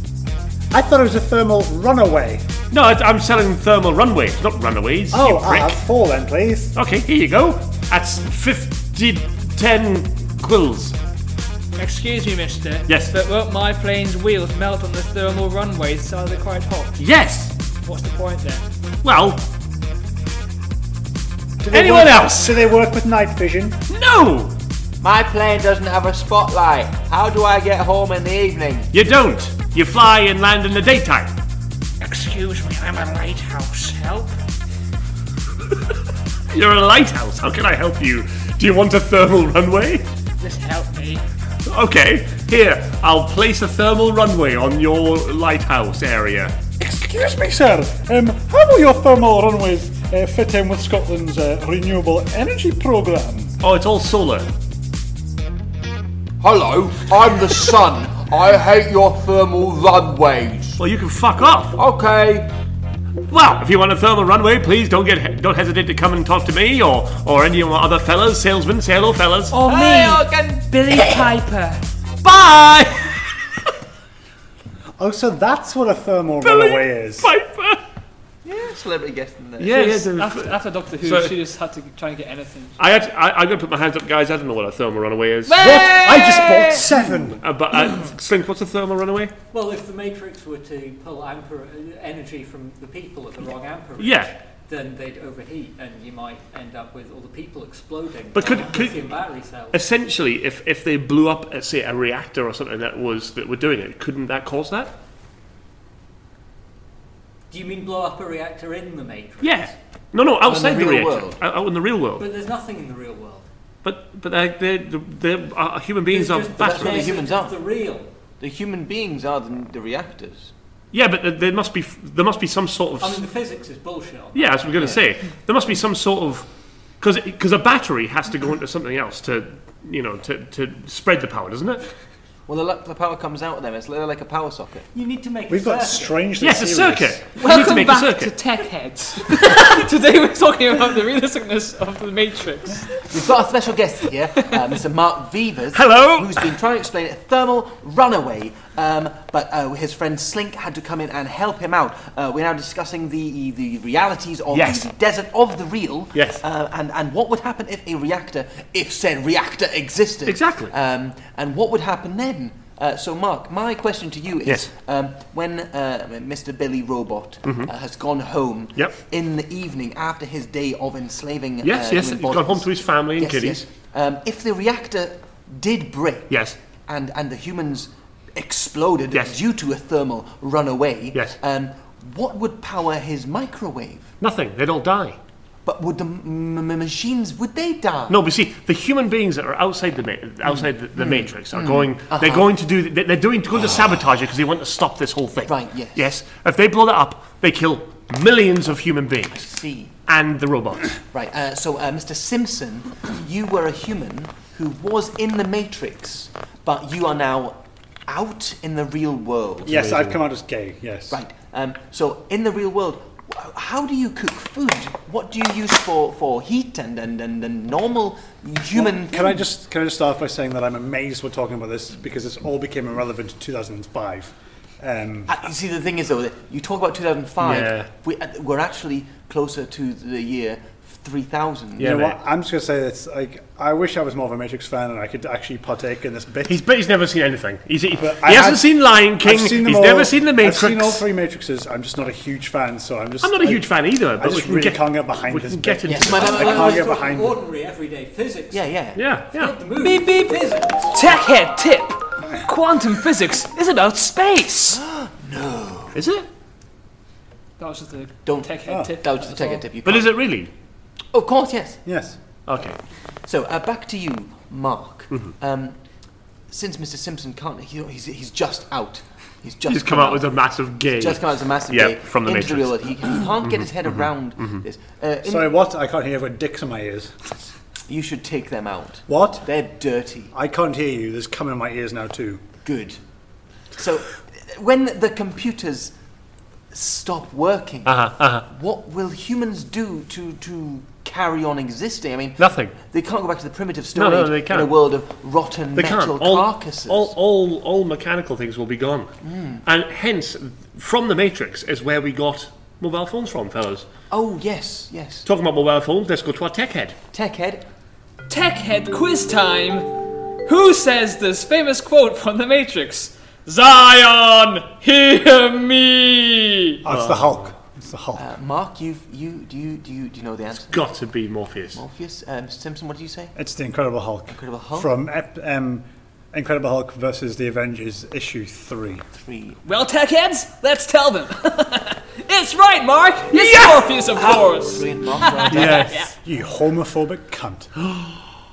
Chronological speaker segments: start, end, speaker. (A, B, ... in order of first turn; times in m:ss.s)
0:00.7-0:02.4 A
0:02.7-0:05.8 B
0:05.1-0:06.7 A
0:06.7-0:11.0 B
0:11.7-0:17.0 C
0:12.9-0:13.1 B
0:17.0-0:17.5 B
0:17.8-0:18.6 C
0:19.0-0:19.4 B
0:21.6-0:23.8 A
0:21.7-0:22.7 B
0:23.9-0:24.5 B
0:25.0-0:28.9 D
0:28.9-0:31.3 B
0:32.0-0:34.3 C
0:36.5-0:40.1 B
0:40.4-0:41.2 C
0:41.6-0:46.6 B
0:46.8-0:53.5 A
0:53.6-0:54.5 B
0:56.4-1:00.8 D
1:00.8-1:01.8 B
1:01.8-1:02.5 D
1:03.3-1:09.6 B
1:09.5-1:11.8 C
1:09.6-1:11.3 D
1:12.2-1:13.3 B
1:15.0-1:17.3 A
1:16.4-1:17.8 B
1:18.4-1:19.8 D
1:19.6-1:21.4 B
1:19.6-1:22.8 C
1:22.8-1:26.3 B
1:25.5-1:26.9 C
1:25.6-1:27.4 A
1:26.9-1:29.3 B
1:29.5-1:39.8 E
1:34.0-1:34.3 B
1:38.3-1:39.1 B
1:39.7-1:44.9 B
1:47.5-1:49.7 E
1:49.4-1:52.3 B
1:50.4-1:51.4 D
1:52.2-1:53.4 E
1:53.8-1:57.1 B
1:56.1-1:58.1 E
1:56.6-1:57.6 D
1:58.4-2:00.5 D
2:00.9-2:03.2 B
2:03.0-2:05.0 E
2:04.3-2:06.5 B
2:07.0-2:11.8 B
2:12.5-2:14.9 D
2:14.9-2:16.2 E
2:15.5-2:17.2 A
2:16.4-2:18.3 B
2:17.4-2:23.1 C
2:23.1-3:04.1 D
2:24.4-2:24.7 C
2:25.7-2:26.4 B
2:34.5-2:34.9 B
2:36.1-2:36.4 B
2:40.2-2:40.7 B
2:47.4-2:47.7 B
2:51.6-2:53.6 B
2:56.3-2:56.6 B
3:04.2-3:05.2 B
3:05.6-3:08.2 D
3:08.1-3:19.4 B
3:10.5-3:12.5 D
3:15.4-3:16.1 D
3:19.3-3:19.9 D
3:20.1-3:20.9 B
3:21.1-3:29.8 D
3:29.6-3:31.2 A
3:29.6-3:30.2 B
3:31.1-3:39.4 D
3:38.7-3:45.4 A
3:45.3-3:52.0 D
3:47.4-3:47.9 B
3:51.8-3:52.2 B
3:51.8-3:56.6 A
3:56.5-4:01.0 B
3:58.0-4:07.4 A
4:03.2-4:06.5 B
4:05.8-4:07.0 D
4:06.1-4:08.7 E
4:08.5-4:09.0 D
4:08.9-4:09.6 B
4:09.3-4:11.0 E
4:09.8-4:14.8 C
4:14.7-4:16.0 D
4:15.9-4:16.3 B
4:17.6-4:19.6 C
4:18.2-4:20.2 D
4:18.6-4:18.9 A
4:19.8-4:20.5 B
4:21.1-4:21.8 D
4:21.8-4:22.2 A
4:22.5-4:22.8 B
4:23.2-4:25.8 D
4:26.5-4:30.3 D
4:29.7-4:34.6 B
4:30.9-4:35.5 D
4:35.2-4:37.1 A
4:37.9-4:40.3 D
4:39.1-4:39.5 A
4:40.3-4:42.4 A
4:42.6-4:43.0 D
4:43.7-4:45.9 D
4:46.7-4:57.1 D
4:47.8-4:48.4 B
4:52.4-4:52.7 B
4:53.9-4:54.7 B
4:55.7-4:59.1 B
4:59.2-4:59.6 D
4:59.6-5:03.9 B
5:04.1-5:05.2 D
5:05.2-5:07.0 B
5:07.1-5:07.6 D
5:08.3-5:16.8 C
5:16.8-5:18.3 A
5:16.8-5:17.5 B
5:18.2-5:20.9 D
5:20.6-5:21.8 B
5:21.7-5:23.3 D
5:23.4-5:29.0 A
5:24.3-5:24.9 D
5:29.2-5:29.6 D
5:29.6-5:36.1 C
5:33.3-5:33.6 B
5:33.6-5:35.9 D
5:35.5-5:38.1 A